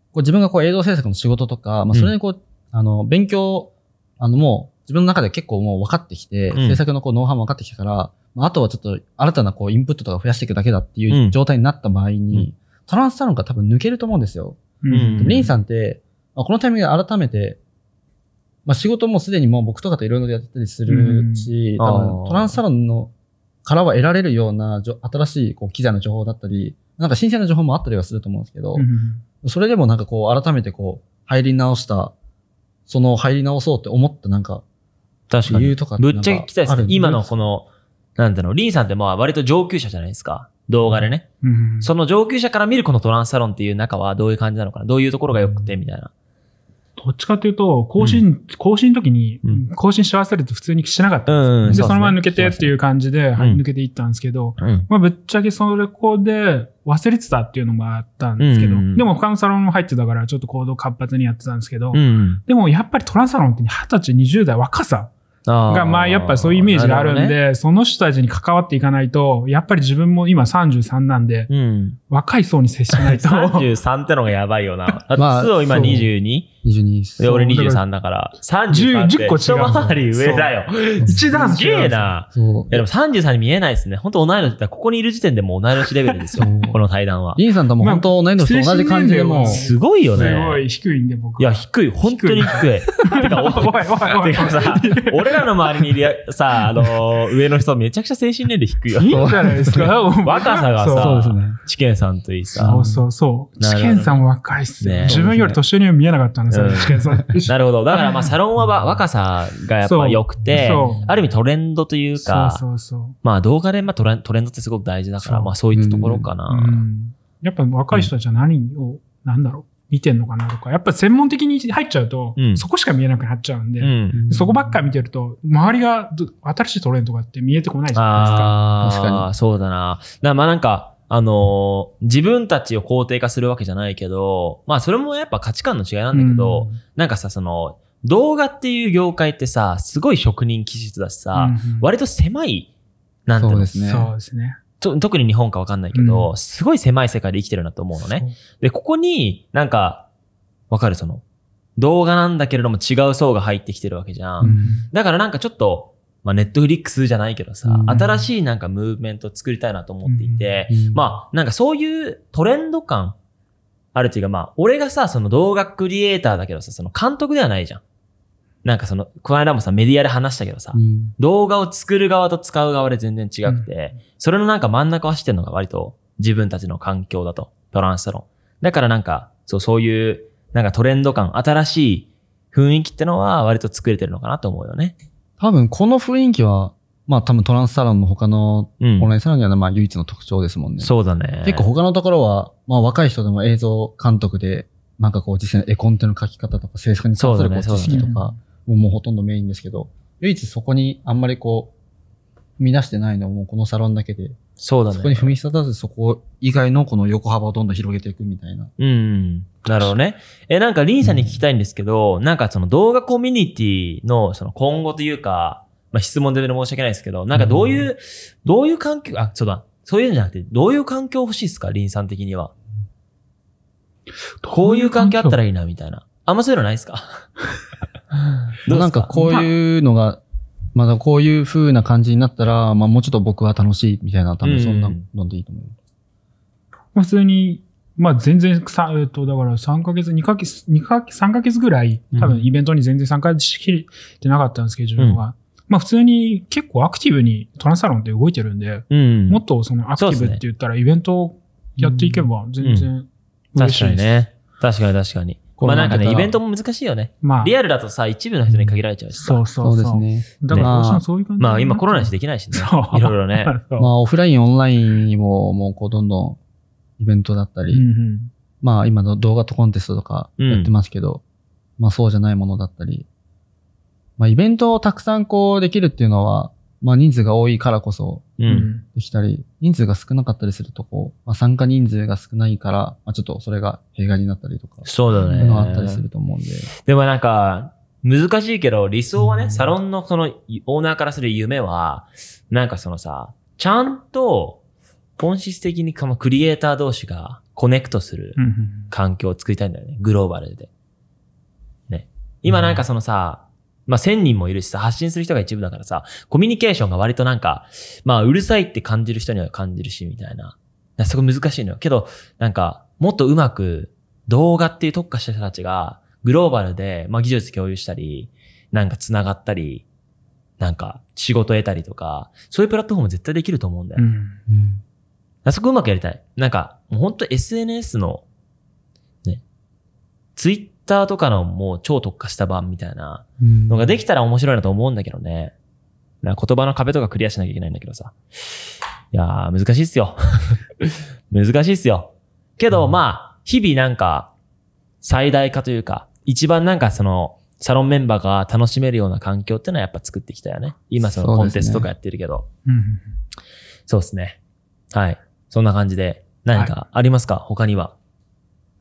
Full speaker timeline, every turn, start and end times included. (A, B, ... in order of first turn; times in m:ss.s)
0:00.1-0:17.6 A
0:06.5-0:06.8 B
0:11.1-0:11.4 B
0:14.8-0:15.5 C
0:14.9-0:15.5 B
0:18.7-0:23.1 A
0:20.9-0:21.5 C
0:21.8-0:22.6 B
0:23.6-0:28.9 A
0:28.7-0:29.2 C
0:29.4-0:32.2 A
0:32.9-0:34.6 A
0:35.3-0:41.3 B
0:35.4-0:37.3 A
0:41.4-0:41.9 C
0:41.8-0:46.1 B
0:47.0-1:05.1 C
0:48.0-0:48.2 B
0:51.3-0:52.7 B
0:51.6-0:52.0 A
0:53.4-0:53.6 B
0:54.6-0:54.9 B
0:58.4-0:59.1 B
1:01.9-1:02.4 B
1:05.5-1:07.4 B
1:05.7-1:11.5 C
1:11.5-1:12.0 B
1:12.1-1:13.7 C
1:12.9-1:16.5 B
1:15.2-1:16.1 A
1:15.6-1:16.0 C
1:16.6-1:17.4 A
1:17.2-1:27.4 B
1:17.2-1:17.8 C
1:18.7-1:22.2 C
1:21.0-1:21.3 A
1:22.3-1:22.8 A
1:26.4-1:26.8 A
1:27.4-1:30.4 A
1:27.8-1:35.9 C
1:29.4-1:30.6 B
1:31.4-1:42.8 B
1:38.9-1:41.2 C
1:39.0-1:39.9 A
1:40.9-1:41.6 A
1:42.6-1:43.0 A
1:42.6-1:48.2 C
1:43.6-1:44.2 B
1:44.8-1:45.2 B
1:45.0-1:45.6 A
1:46.5-1:52.6 B
1:49.8-1:51.1 C
1:50.5-1:50.8 A
1:52.2-1:53.2 C
1:53.2-1:56.8 B
1:55.2-1:55.6 C
1:55.7-1:56.3 A
1:56.5-2:08.6 C
2:02.4-2:02.6 B
2:03.8-2:04.2 B
2:04.1-2:04.8 A
2:07.9-2:22.7 B
2:08.2-2:09.3 A
2:16.1-2:16.8 C
2:21.3-2:21.9 C
2:23.3-2:23.8 B
2:23.3-2:24.1 A
2:23.8-2:24.6 C
2:24.8-2:30.1 B
2:25.9-2:26.3 C
2:28.0-2:28.3 C
2:30.7-2:31.2 B
2:31.8-2:43.2 B
2:34.4-2:34.8 A
2:34.4-2:34.9 C
2:37.6-2:38.0 A
2:37.9-2:38.3 C
2:40.0-2:40.6 C
2:40.7-2:41.1 A
2:43.9-2:47.8 B
2:48.6-3:05.0 B
2:50.7-2:51.2 A
3:05.4-3:10.9 A
3:08.8-3:09.1 B
3:10.8-3:11.7 B
3:11.4-3:21.7 A
3:17.2-3:18.2 B
3:17.8-3:18.4 C
3:22.6-3:24.4 A
3:24.6-3:25.3 B
3:24.9-3:28.7 A
3:28.8-3:42.5 B
3:31.0-3:31.4 A
3:37.4-3:37.9 A
3:44.4-3:45.4 C
3:44.5-3:47.3 B
3:48.6-3:49.3 B
3:48.7-3:50.2 A
3:49.2-3:49.5 C
3:50.7-3:55.7 A
3:54.4-3:55.0 B
3:57.0-4:14.3 C
4:08.9-4:09.4 B
4:10.0-4:10.4 B
4:11.8-4:12.3 A
4:12.6-4:12.9 B
4:13.6-4:19.4 B
4:15.6-4:16.4 A
4:17.2-4:17.6 C
4:19.1-4:23.9 C
4:19.6-4:21.0 A
4:20.5-4:20.7 B
4:21.4-4:23.5 B
4:23.8-4:26.4 A
4:27.0-4:27.8 A
4:27.7-4:28.3 C
4:28.6-4:31.2 A
4:30.4-4:30.7 B
4:31.8-4:33.1 A
4:34.2-4:46.7 A
4:38.4-4:38.7 B
4:38.5-4:38.8 C
4:44.8-4:46.0 B
4:46.8-4:54.6 B
4:49.2-4:49.7 A
4:55.2-5:00.7 B
4:58.4-4:58.9 C
5:01.9-5:19.8 B
5:20.6-5:24.1 B
5:24.0-5:24.4 C
5:24.5-5:24.8 A
5:25.4-5:28.2 B
5:30.4-5:35.5 B
5:33.4-5:34.0 A
5:36.2-5:44.3 B
5:45.0-5:52.5 B
5:51.0-5:51.9 A
5:52.7-5:53.2 C
5:53.9-5:54.4 B
5:54.9-5:57.9 B